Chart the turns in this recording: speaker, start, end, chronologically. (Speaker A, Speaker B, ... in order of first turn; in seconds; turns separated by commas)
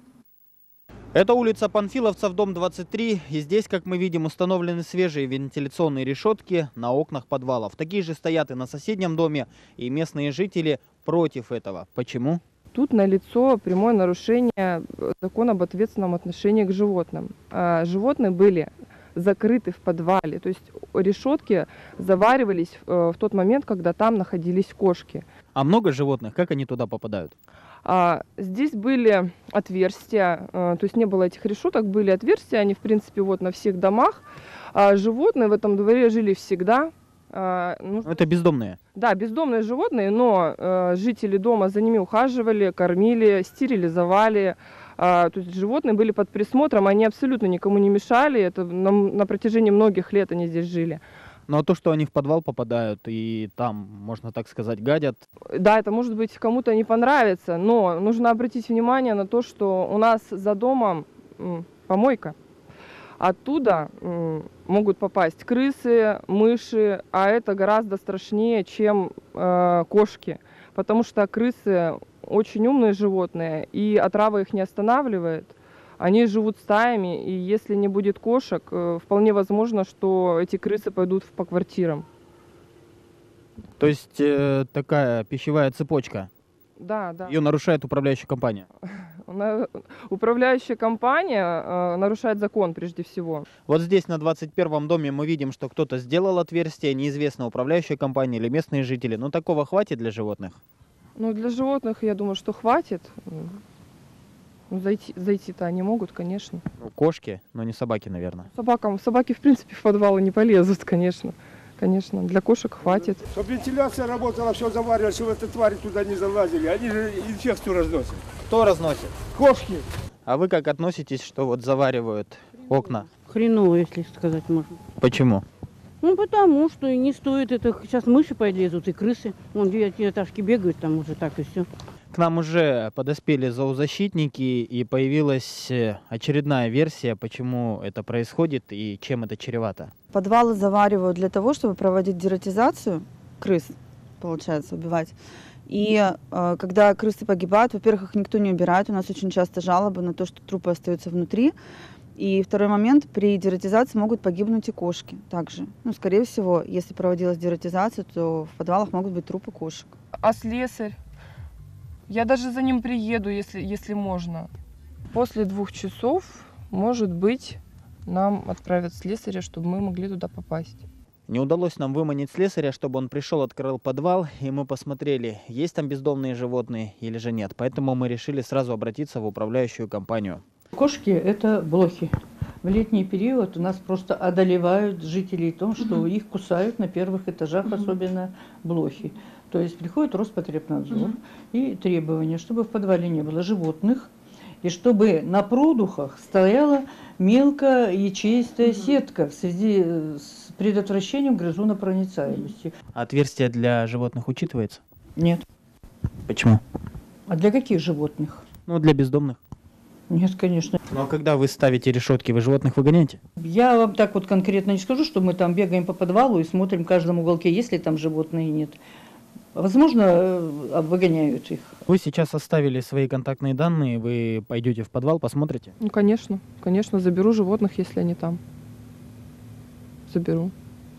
Speaker A: 1.1-12.4, Speaker B: 12.7-25.2, Speaker A: 25.5-27.3, Speaker B: 27.8-38.1, Speaker A: 38.0-38.8, Speaker B: 39.0-51.0, Speaker A: 51.5-55.2, Speaker B: 55.5-62.3, Speaker B: 63.2-82.0, Speaker A: 83.8-86.3, Speaker B: 86.8-87.3, Speaker A: 87.3-88.6, Speaker B: 88.9-93.5, Speaker A: 93.7-100.6, Speaker B: 101.2-103.6, Speaker B: 104.7-106.6, Speaker A: 106.8-108.5, Speaker B: 108.5-113.2, Speaker C: 113.3-118.2, Speaker A: 118.5-119.2, Speaker C: 119.3-119.8, Speaker A: 120.2-123.1, Speaker D: 123.3-124.7, Speaker A: 125.0-125.4, Speaker D: 126.0-131.7, Speaker A: 132.1-139.9, Speaker E: 140.1-145.2, Speaker E: 145.7-151.5, Speaker E: 152.2-159.9, Speaker B: 160.2-161.0, Speaker B: 162.1-164.5, Speaker B: 165.1-170.8, Speaker A: 171.3-180.4, Speaker F: 180.7-194.1, Speaker F: 194.6-202.7, Speaker A: 202.9-204.8, Speaker F: 205.2-205.4, Speaker A: 206.3-206.6, Speaker F: 207.3-208.4, Speaker A: 208.7-209.4, Speaker F: 210.1-210.8, Speaker A: 210.9-213.2, Speaker F: 213.4-218.8, Speaker F: 219.5-221.8, Speaker A: 221.8-225.7, Speaker B: 225.8-228.4, Speaker B: 230.1-230.5